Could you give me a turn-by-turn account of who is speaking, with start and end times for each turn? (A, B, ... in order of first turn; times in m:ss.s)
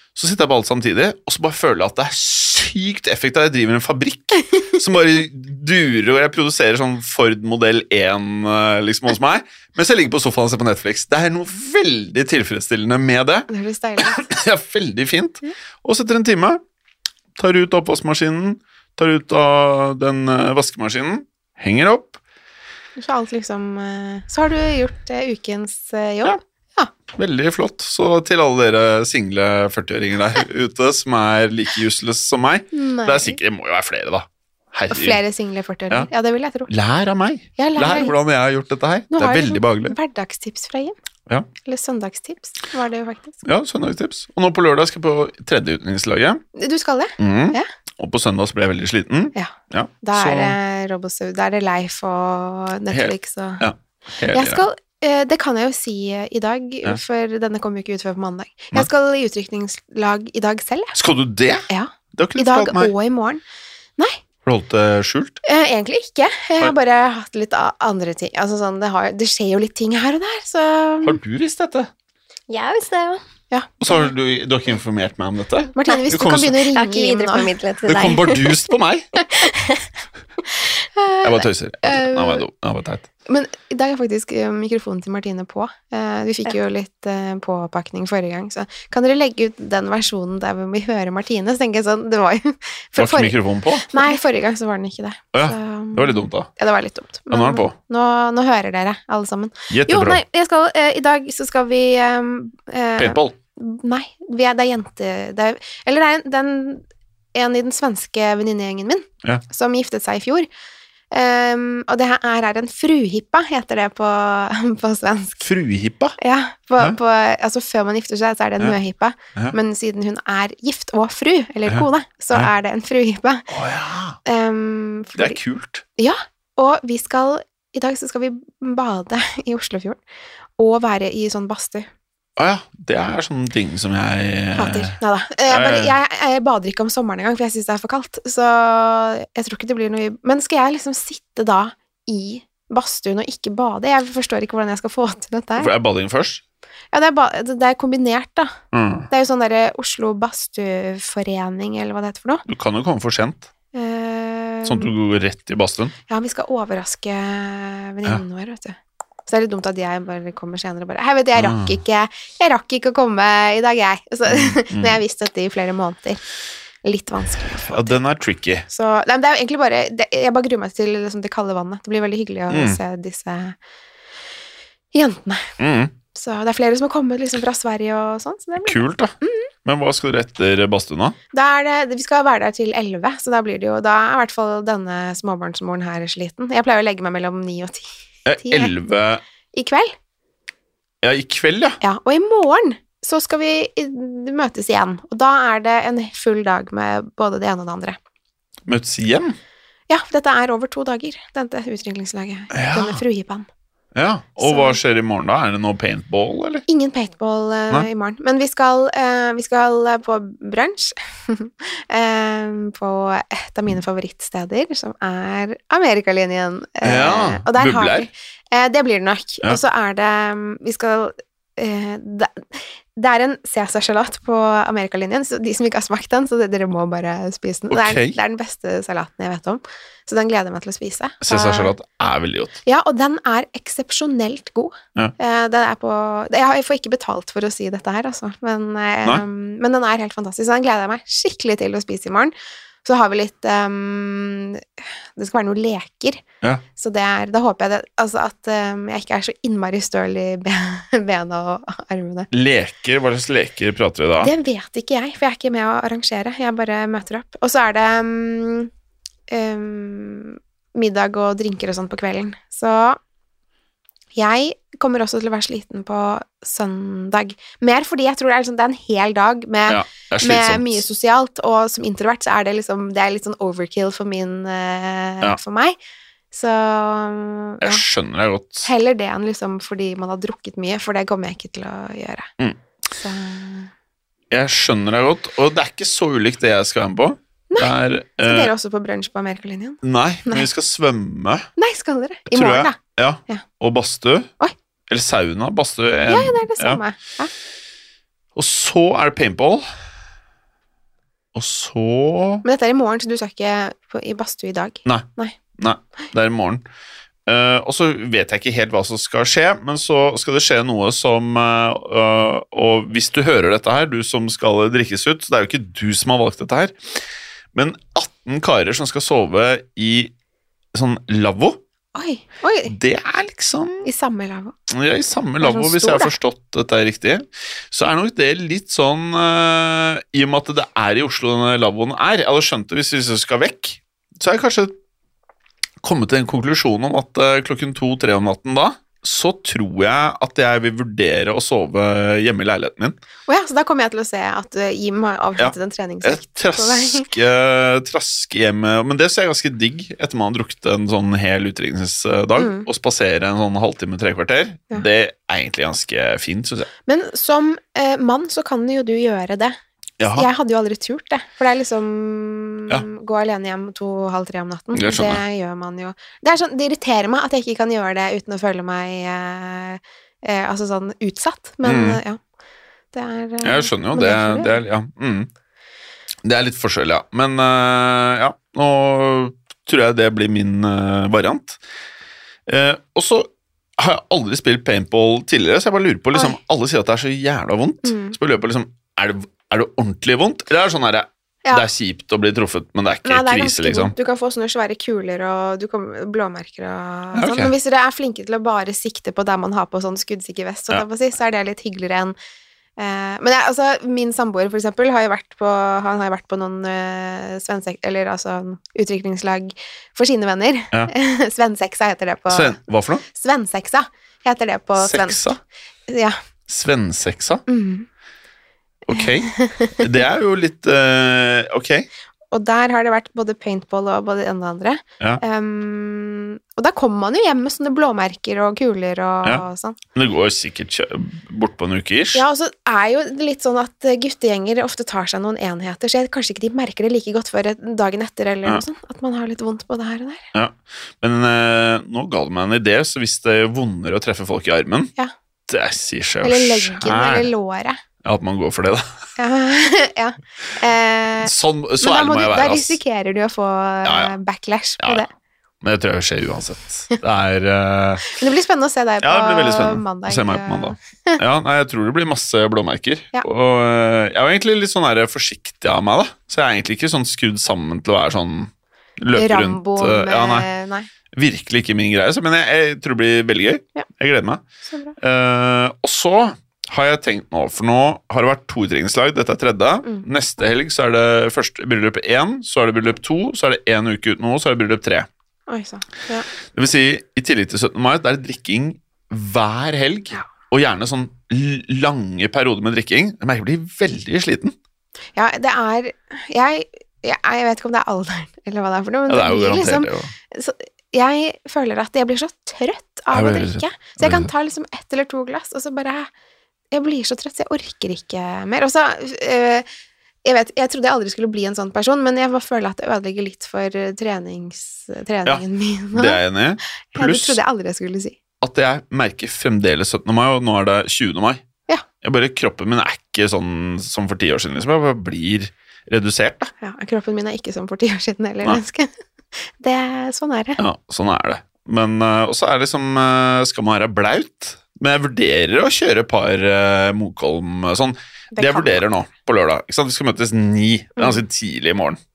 0:00.2-0:16.6 A
0:13.5-0:14.2 B
0:17.4-0:22.2 A
0:23.0-0:26.9 B
0:27.1-0:35.2 A
0:32.7-0:33.4 B
0:34.9-0:36.7 B
0:36.7-0:40.0 A
0:37.6-0:38.2 B
0:39.1-0:40.9 B
0:41.6-0:43.4 B
0:43.4-0:46.4 A
0:46.6-0:47.7 B
0:47.2-0:50.6 A
0:49.4-0:53.6 B
0:52.9-0:54.6 A
0:54.3-1:01.0 B
1:01.0-1:02.9 A
1:01.7-1:03.4 B
1:04.5-1:05.4 A
1:05.4-1:11.2 B
1:11.0-1:11.9 A
1:12.5-1:13.2 C
1:13.5-1:14.1 B
1:13.8-1:16.6 A
1:15.8-1:17.5 B
1:16.7-1:18.6 C
1:17.9-1:19.1 A
1:19.3-1:19.8 C
1:21.0-1:21.3 B
1:21.2-1:23.1 A
1:21.8-1:22.4 B
1:23.3-1:50.5 B
1:33.0-1:34.0 A
1:35.3-1:36.5 A
1:37.3-1:37.8 A
1:39.7-1:40.2 A
1:43.0-1:43.4 A
1:51.1-1:55.4 B
1:55.4-1:56.2 A
1:56.2-2:03.5 B
2:01.7-2:02.5 A
2:03.5-2:04.2 A
2:04.2-2:05.4 B
2:05.2-2:05.8 A
2:06.0-2:10.0 B
2:10.6-2:11.9 B
2:12.4-2:15.0 A
2:14.6-2:25.7 B
2:15.5-2:16.0 A
2:25.6-2:26.4 A
2:26.9-2:28.6 B
2:28.7-2:29.1 A
2:29.1-2:32.4 B
2:32.5-2:33.5 A
2:33.7-2:34.9 B
2:34.6-2:36.0 A
2:36.1-2:46.2 B
2:41.4-2:41.8 A
2:44.3-2:45.0 A
2:46.8-2:48.0 B
2:47.6-2:48.7 A
2:48.7-2:53.6 B
2:52.5-2:52.8 A
2:54.9-2:55.5 B
2:55.6-2:55.9 A
2:56.1-2:59.5 B
2:58.6-3:01.2 A
3:01.3-3:08.7 B
3:08.2-3:09.2 A
3:09.5-3:09.9 B
3:11.0-3:11.8 A
3:11.8-3:18.0 B
3:18.7-3:19.4 A
3:19.9-3:23.5 B
3:22.5-3:23.0 A
3:23.9-3:26.6 A
3:24.4-3:24.8 B
3:26.7-3:51.7 B
3:36.8-3:38.1 A
3:47.7-3:48.2 A
3:51.2-3:52.6 A
3:52.6-4:02.3 B
4:02.8-4:04.6 B
4:05.2-4:06.2 B
4:06.8-4:12.3 B
4:12.3-4:14.3 A
4:14.2-4:18.7 B
4:19.3-4:23.0 B
4:24.2-4:35.8 B
4:29.7-4:30.8 A
4:36.3-4:37.8 B
4:37.6-4:38.7 A
4:38.6-4:42.3 B
4:42.9-4:43.7 B
4:44.3-4:48.5 A
4:47.5-4:50.5 B
4:49.8-4:51.5 A
4:51.6-4:53.4 B
4:52.3-4:54.3 A
4:54.9-4:56.8 A
4:56.1-4:57.3 B
4:58.4-4:59.7 A
5:01.3-5:02.4 A
5:02.4-5:05.4 B
5:04.8-5:06.6 A
5:07.3-5:17.0 A
5:17.5-5:20.1 A
5:20.7-5:21.6 A
5:22.0-5:22.8 B
5:22.7-5:23.9 A
5:23.8-5:24.6 B
5:24.7-5:34.8 A
5:25.4-5:26.1 B
5:35.8-5:43.0 A
5:43.3-5:47.1 B
5:45.4-5:56.7 A
5:52.4-5:52.7 B
5:56.9-5:59.6 B
6:00.0-6:00.3 A
6:00.1-6:12.2 B
6:04.7-6:05.2 A
6:11.6-6:12.0 A
6:12.9-6:14.6 B
6:13.4-6:15.3 A
6:16.2-6:21.6 A
6:22.5-6:33.9 A
6:27.8-6:28.2 B
6:33.0-6:42.2 B
6:37.2-6:37.5 A
6:42.8-6:52.6 B
6:52.3-6:53.0 A
6:53.1-6:55.3 B
6:54.8-6:55.4 A
6:55.9-6:56.2 B
6:56.5-6:57.4 A
6:57.5-6:57.9 B
6:58.9-7:01.9 A
6:59.0-6:59.8 B
7:02.3-7:09.8 B
7:10.0-7:12.2 A
7:12.1-7:20.3 B
7:20.3-7:24.9 A
7:25.5-7:27.3 A
7:26.2-7:27.8 B
7:28.0-7:28.8 A
7:29.2-7:35.1 B
7:31.2-7:32.8 A
7:33.8-7:34.1 A
7:34.8-7:35.0 A
7:35.6-7:38.1 A
7:38.1-7:41.2 B
7:39.0-7:50.5 A
7:49.1-7:50.9 B
7:51.1-7:54.4 A
7:54.7-7:54.9 B
7:55.0-8:05.1 A
8:05.5-8:06.3 B
8:06.5-8:14.6 A
8:15.2-8:26.1 B
8:19.1-8:20.1 A
8:23.1-8:24.3 A
8:26.7-8:29.7 B
8:30.2-8:36.2 B
8:35.3-8:37.4 A
8:36.9-8:38.2 B
8:38.4-8:41.4 A
8:42.0-8:46.4 A
8:46.5-8:48.9 B
8:49.6-8:50.6 B
8:50.6-9:02.0 A
8:58.4-8:58.8 B
9:01.0-9:01.2 B